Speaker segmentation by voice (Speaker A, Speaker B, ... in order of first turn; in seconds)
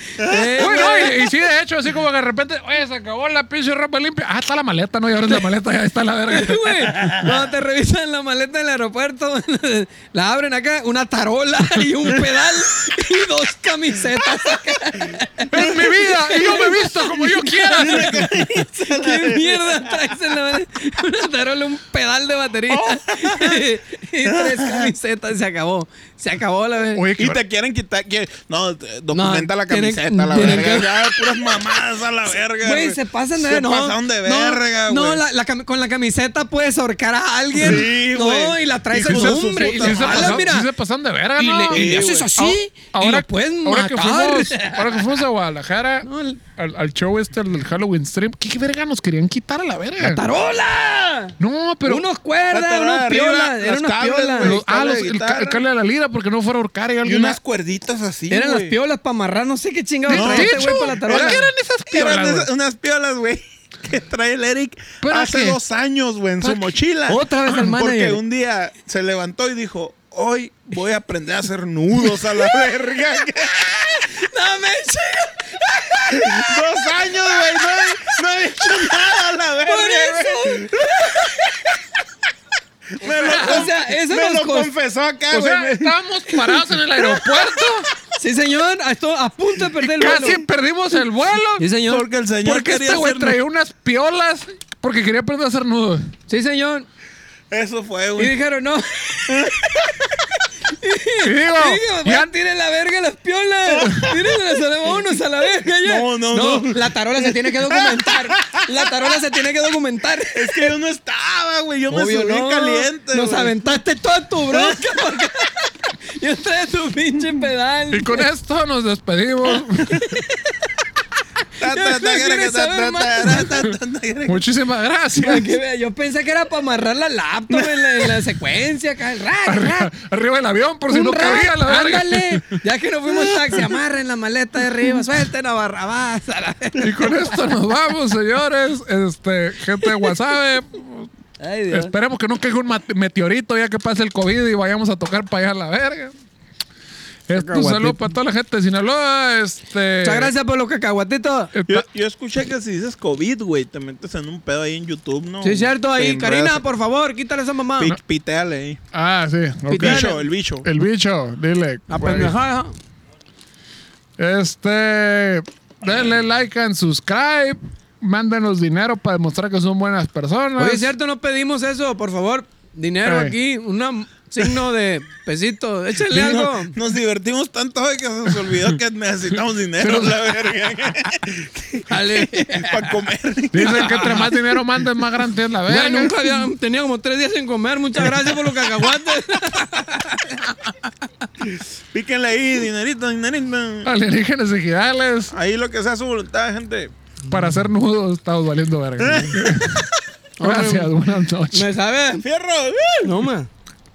Speaker A: 0.2-1.2, 6.3-18.2, 18.9-27.0, 29.1-31.2, 32.6-40.7, 41.4-45.1, 46.0-46.4, 50.0-54.5, 58.3-61.4, 67.1-68.2, 74.0-76.6, 79.6-81.7, 83.0-84.7, 88.2-90.4, 91.6-92.0, 96.3-96.9, 98.2-99.9, 100.7-110.7, 111.9-118.2, 119.9-120.5, 121.6-123.5, 125.2-129.9, 130.9-137.3, 141.4-141.9, 147.3-148.0, 150.0-151.5, 155.4-157.9, 159.7-160.2, 161.9-162.7, 170.6-176.7, 181.9-182.9, 183.6-184.3, 185.7-190.7, 200.4-200.9, 201.5-202.2, 203.0-203.5
Speaker B: 0.2-0.8, 17.8-20.0, 22.7-23.6, 24.2-24.9, 27.2-35.2, 37.6-40.5, 41.7-42.3, 52.5-55.6, 57.0-58.8, 60.1-74.1, 76.1-81.3, 83.0-85.9, 91.9-93.4, 97.5-98.3, 99.2-100.2, 103.7-104.1, 105.8-108.9, 110.3-113.5, 114.5-114.9, 121.6-124.4, 127.5-128.2, 151.7-156.7, 157.8-158.8, 159.7-160.7, 176.0-184.3, 191.4-193.9, 195.3-196.9, 199.0-199.8, 202.2-203.3
Speaker C: 0.6-6.9, 15.5-18.3, 26.9-27.4, 39.0-50.2, 51.4-52.0, 54.4-57.4, 60.1-62.5, 65.0-65.6, 85.3-87.9, 89.8-91.7, 92.4-96.1, 101.2-102.3, 117.9-120.2, 124.2-125.5, 129.4-132.4, 136.8-141.1, 141.7-146.1, 147.3-150.3, 151.5-151.8, 158.9-162.3, 164.2-170.9, 173.1-173.3, 179.8-180.2, 183.5-186.4, 193.8-195.3, 197.3-199.8, 200.4-201.7